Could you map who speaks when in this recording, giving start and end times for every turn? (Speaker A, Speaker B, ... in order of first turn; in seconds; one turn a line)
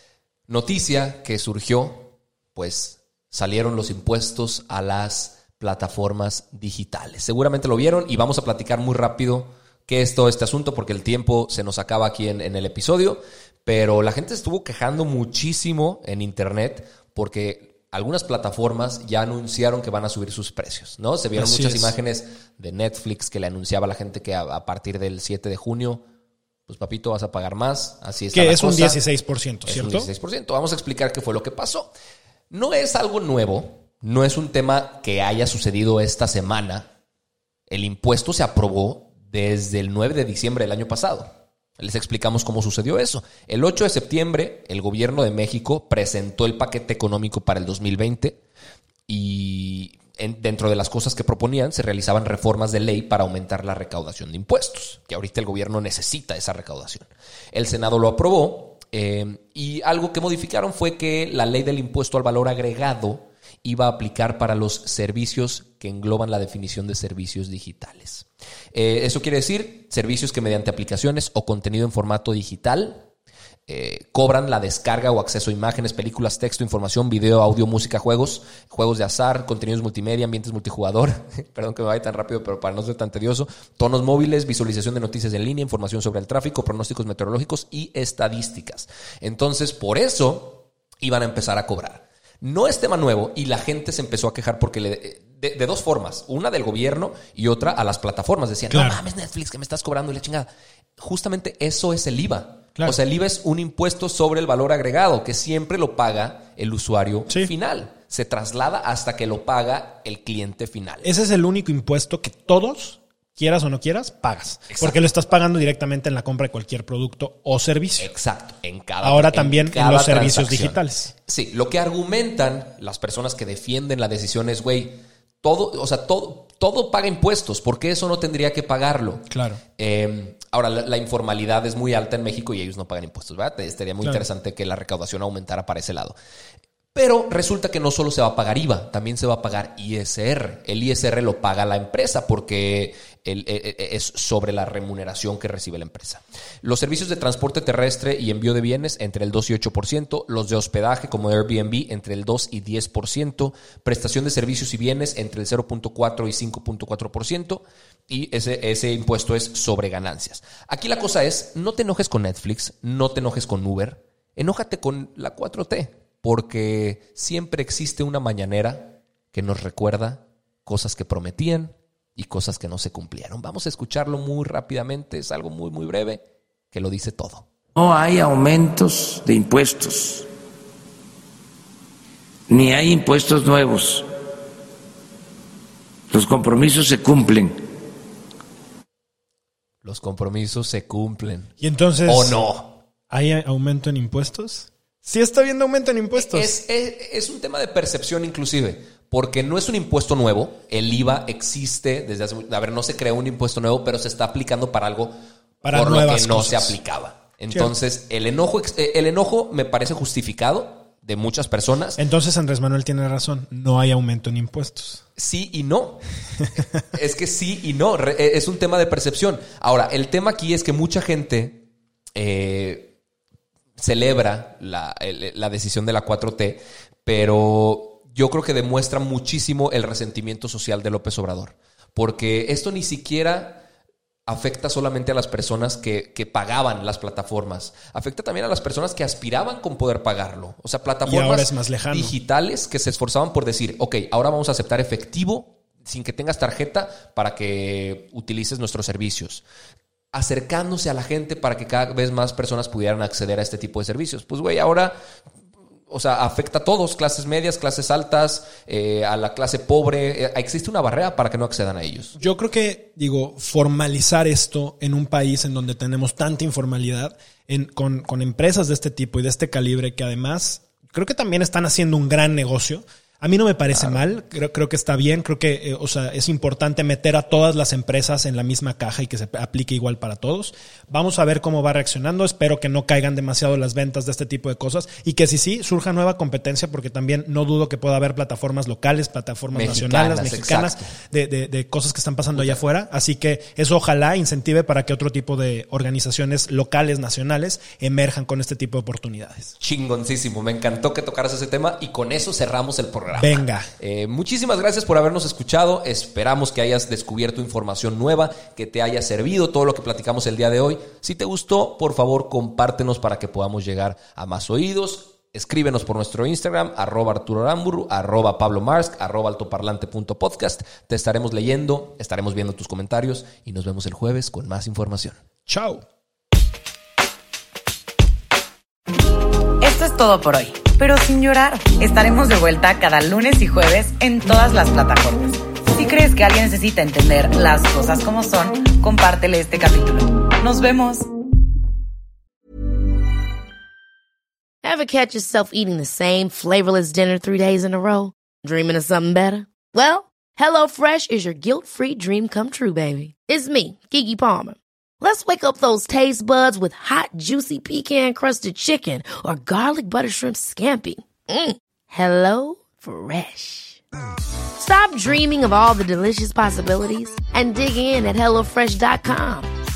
Speaker A: 0.5-26.0
Speaker B: 21.4-21.9
Speaker A: 26.7-29.0
Speaker B: 28.3-30.1
Speaker A: 29.6-31.9
Speaker A: 32.5-36.9
Speaker A: 37.7-48.4
Speaker A: 49.1-73.0
Speaker A: 73.7-111.1
Speaker B: 98.7-99.0
Speaker B: 111.0-118.1
Speaker A: 114.7-115.0
Speaker A: 118.0-136.2
Speaker B: 119.0-121.1
Speaker B: 129.3-129.6
Speaker B: 134.0-134.3
Speaker A: 136.9-177.5
Speaker C: 177.8-180.3
Speaker C: 182.5-184.1
Speaker C: 186.1-187.6
Speaker A: 189.8-191.5
Speaker B: 191.6-192.4
Speaker A: 192.1-192.8
Speaker B: 193.1-196.5
Speaker A: 196.2-205.2
Speaker B: 205.6-206.8
Speaker A: 205.7-212.0
Speaker B: 212.0-215.0
Speaker A: 215.2-216.0
Speaker A: 216.9-221.6
Speaker A: 222.1-222.9
Speaker A: 223.8-233.6
Speaker A: 234.2-249.4
Speaker B: 241.0-242.1
Speaker A: 250.1-255.0
Speaker A: 255.9-262.1
Speaker B: 262.2-299.5
Speaker A: 289.5-290.9
Speaker A: 299.6-325.2
Speaker B: 303.1-303.7
Speaker B: 325.5-325.8
Speaker D: 329.6-341.1
Speaker E: 344.6-363.8
Speaker E: 364.6-369.5